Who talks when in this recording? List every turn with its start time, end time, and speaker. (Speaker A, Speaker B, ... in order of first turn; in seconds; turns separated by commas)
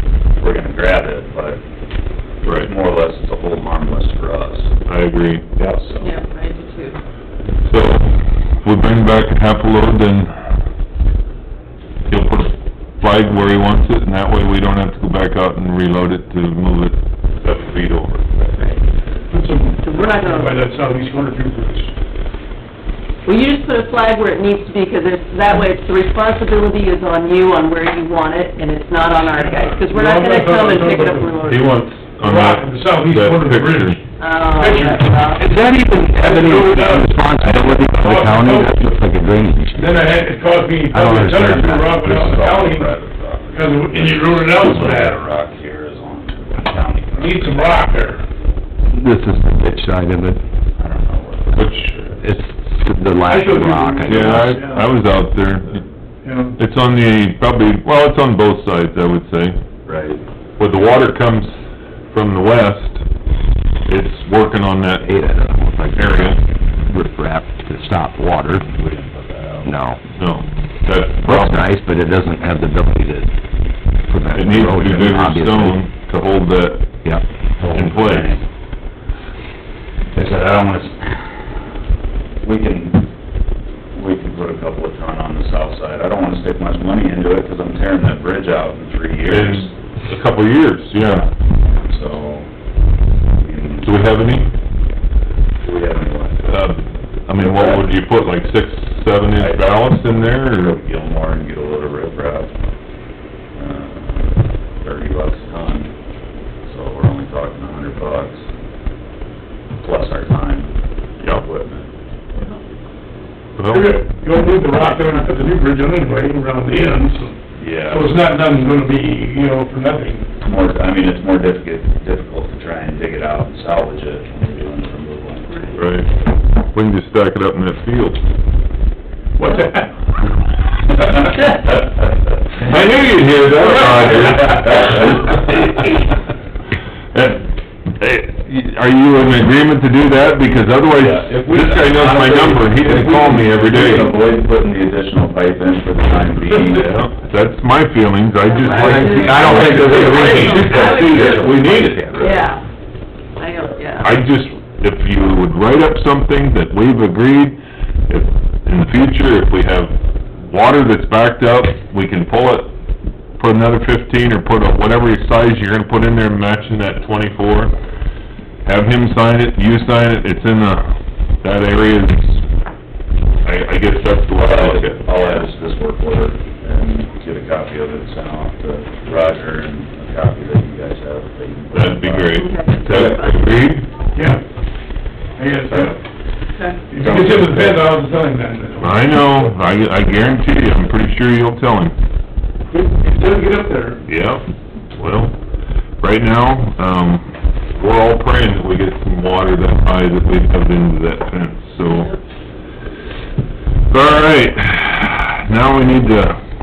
Speaker A: 0.4-1.6, Speaker A: 2.4-4.7, Speaker B: 2.4-2.7, Speaker B: 4.8-5.6, Speaker A: 5.6-6.1, Speaker C: 6.0-7.0, Speaker B: 7.6-10.5, Speaker B: 12.1-18.6, Speaker D: 19.3-21.9, Speaker C: 19.8-20.5, Speaker C: 23.2-31.7, Speaker D: 29.2-35.4, Speaker B: 31.4-34.0, Speaker C: 34.2-35.5, Speaker E: 35.3-40.0, Speaker D: 36.0-38.9, Speaker D: 39.7-42.9, Speaker E: 40.9-42.3, Speaker A: 42.0-47.6, Speaker D: 43.5-45.2, Speaker D: 47.2-48.2, Speaker E: 48.9-50.4, Speaker A: 50.8-52.4, Speaker B: 51.5-51.9, Speaker E: 52.2-54.6, Speaker D: 53.2-54.8, Speaker B: 54.0-55.8, Speaker D: 56.2-56.5, Speaker B: 56.6-59.6, Speaker A: 59.8-60.2, Speaker B: 60.6-61.6, Speaker B: 62.1-63.0, Speaker B: 63.9-65.1, Speaker E: 65.0-68.6, Speaker B: 65.9-66.4, Speaker A: 68.5-69.8, Speaker E: 69.6-70.0, Speaker B: 70.2-71.6, Speaker E: 71.2-73.3, Speaker E: 74.1-75.8, Speaker B: 74.3-76.8, Speaker E: 77.0-78.0, Speaker B: 77.7-78.4, Speaker A: 77.9-78.4, Speaker A: 80.1-81.5, Speaker A: 82.4-83.1, Speaker A: 83.9-89.7, Speaker B: 89.2-91.2, Speaker A: 91.0-92.5, Speaker A: 93.3-94.5, Speaker B: 93.8-94.5, Speaker A: 95.6-96.4, Speaker B: 96.4-100.8, Speaker A: 97.4-97.8, Speaker A: 99.3-102.5, Speaker A: 103.5-105.9, Speaker A: 106.7-108.4, Speaker A: 109.8-111.9, Speaker B: 113.6-113.9, Speaker D: 113.7-120.3, Speaker A: 117.6-118.3, Speaker A: 120.4-125.9, Speaker B: 125.7-126.1, Speaker B: 126.7-128.2, Speaker D: 129.4-129.9, Speaker A: 130.9-135.9, Speaker B: 132.6-135.6, Speaker B: 137.1-137.4, Speaker B: 137.9-144.2, Speaker A: 140.9-147.1, Speaker B: 146.7-152.4, Speaker C: 148.5-152.6, Speaker E: 148.8-152.3, Speaker A: 149.7-151.0, Speaker A: 151.6-152.4, Speaker C: 153.3-154.2, Speaker B: 154.0-162.7, Speaker B: 163.4-167.7, Speaker B: 168.6-172.4, Speaker B: 173.4-175.0, Speaker A: 174.4-183.2, Speaker B: 181.7-183.9, Speaker C: 182.3-183.4, Speaker D: 184.1-184.4, Speaker D: 185.4-185.9, Speaker A: 185.7-185.9, Speaker D: 186.9-189.0, Speaker A: 187.0-187.9, Speaker B: 188.8-191.9, Speaker D: 192.7-194.0, Speaker B: 194.1-194.4, Speaker B: 194.9-195.3, Speaker B: 196.0-202.2, Speaker B: 203.9-206.4